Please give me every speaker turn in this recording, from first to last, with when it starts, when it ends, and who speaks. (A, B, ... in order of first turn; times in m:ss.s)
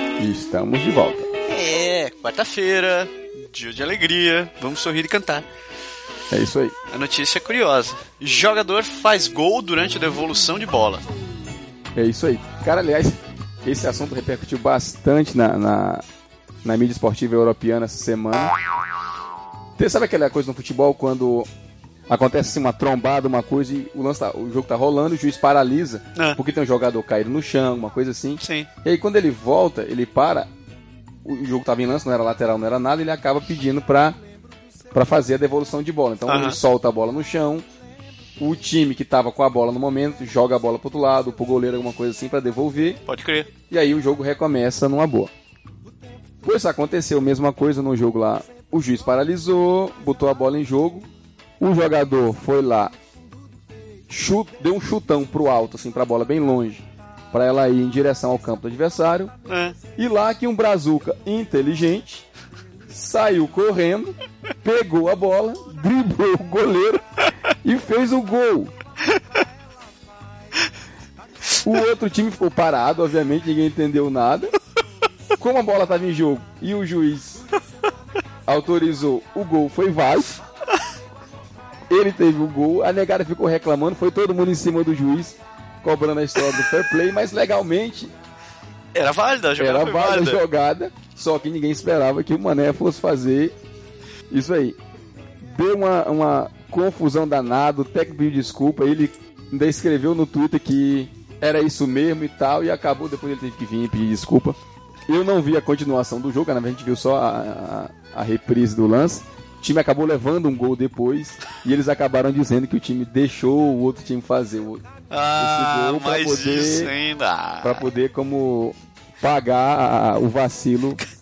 0:00.2-0:01.3 A
0:01.5-0:05.5 B
0:06.3-0:06.8 A
0:06.9-0:11.0 B
0:12.0-0:16.0 A
0:16.6-0:18.5 A
0:19.8-0:21.5 A
0:22.1-0:30.5 A
0:28.4-0:28.7 B
0:31.2-0:34.2 A
0:34.9-0:37.7 A
0:36.3-0:36.6 B
0:38.4-0:43.0 A
0:43.1-0:43.5 B
0:43.7-0:45.3 A
0:46.4-0:51.1 A
0:51.6-0:52.9 A
0:54.1-0:59.3 A
0:59.5-0:59.8 B
1:00.0-1:02.3 A
1:02.9-1:07.0 A
1:07.6-1:08.7 A
1:11.6-1:14.5 A
1:15.4-1:17.4 A
1:18.5-1:20.3 A
1:21.9-1:28.1 A
1:28.9-1:30.4 B
1:29.6-1:33.6 A
1:34.3-1:34.8 A
1:35.4-1:44.6 A
1:45.1-1:54.8 A
1:55.1-1:57.9 B
1:55.4-1:56.9 A
1:57.6-2:01.0 A